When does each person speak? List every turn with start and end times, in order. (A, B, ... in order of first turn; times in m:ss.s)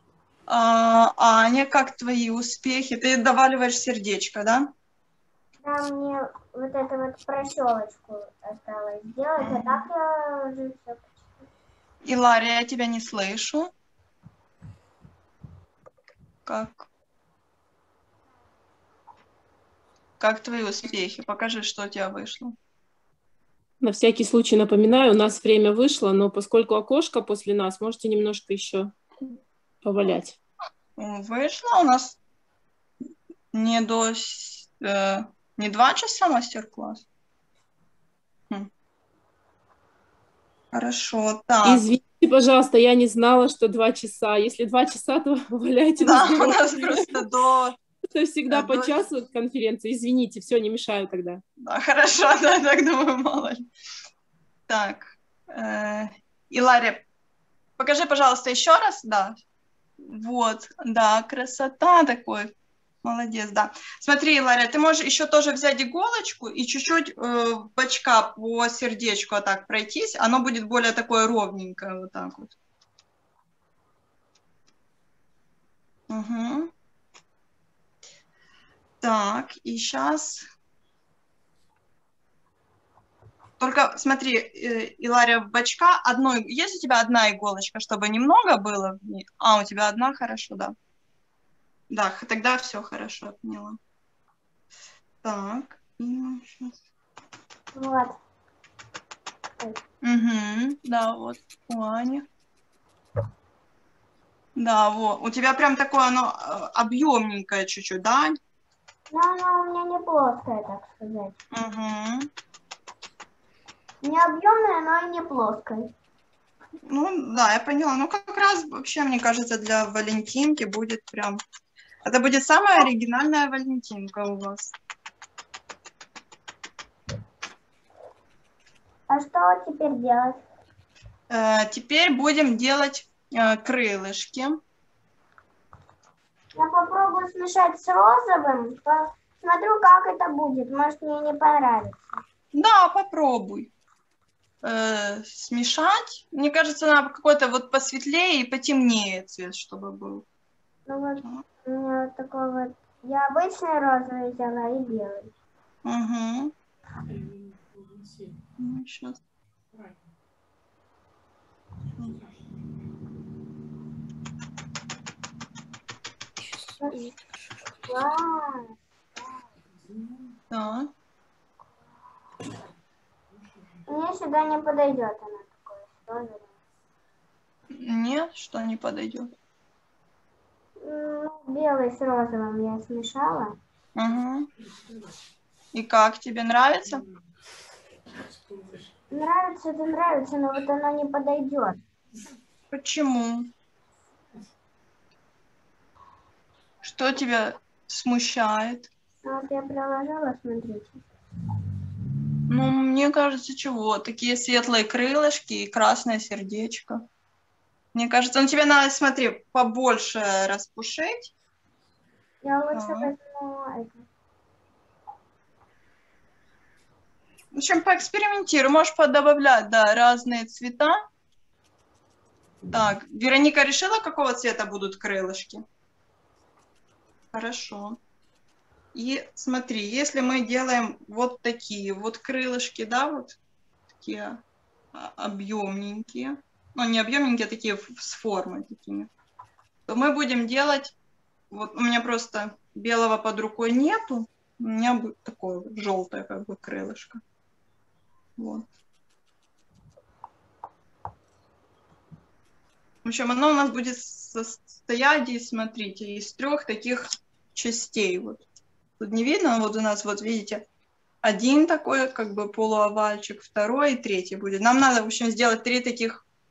0:00.5-0:04.7 A
0:05.6-0:11.3 B
0:09.4-0:09.9 A
0:12.0-0:13.7 A
0:16.5-0:16.9 A
0:20.2-0:22.6 A
0:23.8-0:28.9 C
0:29.8-0:30.4 C
0:31.0-0:32.2 A
0:33.5-0:37.0 A
0:40.7-0:41.9 A
0:41.6-0:47.2 C
0:46.0-0:47.8 A
0:48.1-0:51.4 C
0:48.5-0:49.1 A
0:51.6-0:53.7 A
0:54.7-0:57.0 A
0:57.8-0:59.4 A
1:00.0-1:12.6 A
1:16.1-1:16.7 A
1:19.0-1:20.5 A
1:23.6-1:30.8 A
1:31.9-1:33.8 A
1:35.2-1:36.8 A
1:37.7-1:38.2 B
1:40.0-1:42.3 A
1:44.6-1:48.4 A
1:49.1-1:51.4 B
1:51.5-1:52.3 A
1:54.0-1:55.9 B
1:56.9-2:01.4 A
2:02.0-2:04.8 A
2:09.1-2:10.4 B
2:11.3-2:14.6 A
2:16.6-2:22.2 B
2:22.5-2:23.7 A
2:24.6-2:30.3 A
2:30.9-2:35.3 B
2:35.8-2:36.5 A
2:38.6-2:39.2 A
2:47.8-2:48.8 B
2:50.5-2:50.9 A
2:53.9-2:56.5 B
2:57.7-2:59.3 A
3:00.8-3:03.6 B
3:04.0-3:04.5 A
3:05.7-3:07.0 A
3:09.1-3:11.8 B
3:12.7-3:13.5 A
3:16.8-3:18.9 A
3:19.2-3:21.1 B
3:22.5-3:27.0 A
3:27.9-3:31.3 A
3:32.4-3:34.0 B
3:32.7-3:33.1 A
3:37.5-3:41.0 A
3:42.7-3:45.6 A
3:47.3-3:48.0 A
3:48.9-3:53.4 A
3:54.0-3:54.4 A
3:54.9-3:59.1 A
3:59.9-4:01.0 A
4:01.5-4:07.2 A
4:08.4-4:08.7 A
4:13.0-4:18.4 A
4:19.0-4:20.6 A
4:21.2-4:26.2 A